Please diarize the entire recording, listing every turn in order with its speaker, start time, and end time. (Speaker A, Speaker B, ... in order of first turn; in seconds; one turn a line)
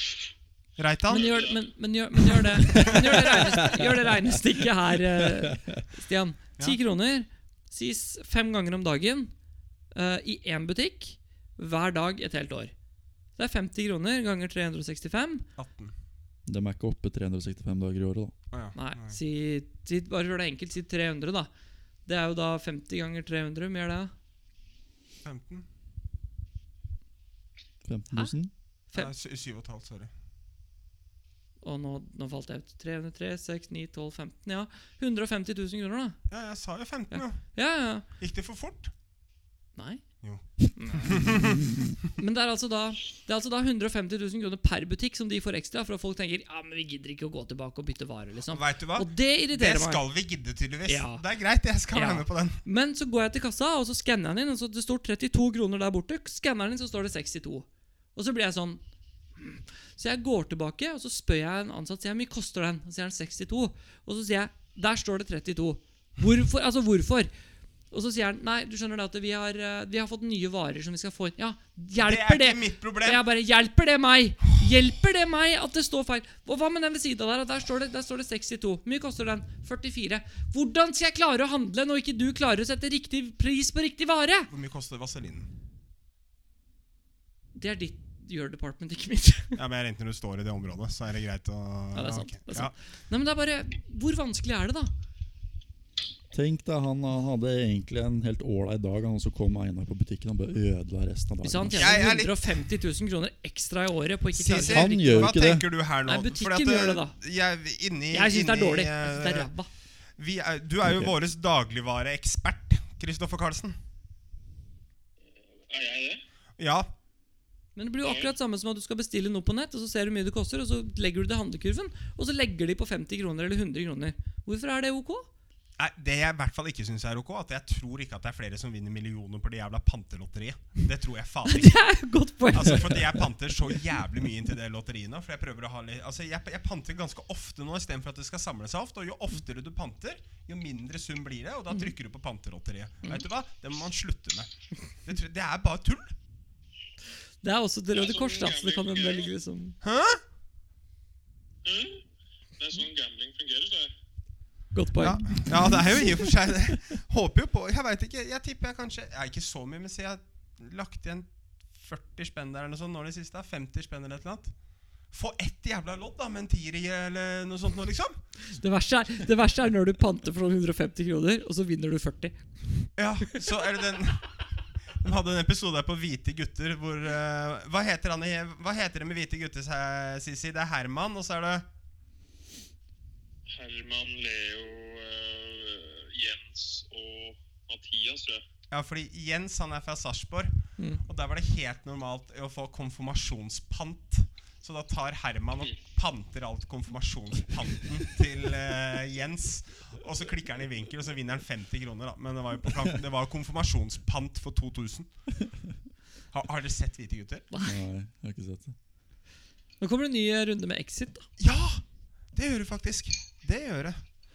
Speaker A: 0.8-1.4
Speaker B: 1.1-9.3
Speaker C: 1.1-1.6
Speaker A: 2.3-3.6
Speaker D: 2.7-4.3
Speaker D: 5.2-5.8
Speaker B: 9.9-12.7
Speaker B: 13.4-15.5
Speaker A: 15.6-15.9
Speaker D: 16.5-18.3
Speaker A: 18.5-19.2
Speaker B: 18.8-21.5
Speaker B: 22.1-24.1
Speaker A: 25.2-25.7
Speaker D: 27.8-28.5
Speaker A: 28.9-30.1
Speaker B: 31.6-36.2
Speaker A: 36.3-37.6
Speaker B: 37.1-38.0
Speaker A: 38.1-38.9
Speaker B: 39.8-40.0
Speaker A: 40.2-41.7
Speaker B: 40.7-41.3
Speaker B: 42.2-50.0
Speaker A: 48.5-52.6
Speaker B: 50.9-51.2
Speaker B: 51.9-58.8
Speaker B: 59.4-67.3
Speaker B: 67.9-84.5
Speaker A: 72.0-73.2
Speaker A: 84.5-85.5
Speaker B: 87.5-89.6
Speaker A: 89.5-92.7
Speaker B: 91.9-94.9
Speaker D: 96.3-102.0
Speaker B: 101.4-105.3
Speaker A: 101.8-102.5
Speaker A: 104.3-109.5
Speaker D: 104.5-105.7
Speaker B: 106.1-107.2
Speaker B: 108.1-109.7
Speaker A: 110.2-113.8
Speaker D: 110.8-111.1
Speaker C: 115.5-116.2
Speaker A: 116.6-116.9
Speaker B: 117.8-125.3
Speaker C: 118.0-118.3
Speaker A: 125.8-131.8
Speaker B: 131.5-133.0
Speaker A: 132.5-144.5
Speaker A: 145.0-146.1
Speaker B: 147.4-149.8
Speaker C: 147.9-149.3
Speaker A: 149.8-150.2
Speaker C: 151.6-152.0
Speaker C: 152.6-153.9
Speaker B: 154.7-156.3
Speaker A: 155.0-164.5
Speaker A: 165.1-168.2
Speaker B: 168.5-173.4
Speaker A: 173.0-174.3
Speaker A: 175.0-181.7
Speaker C: 183.5-188.4
Speaker A: 188.7-205.1
Speaker B: 190.8-191.0
Speaker A: 206.3-207.5
Speaker B: 207.5-207.8
Speaker D: 207.6-208.8
Speaker B: 209.8-211.3
Speaker A: 211.4-214.0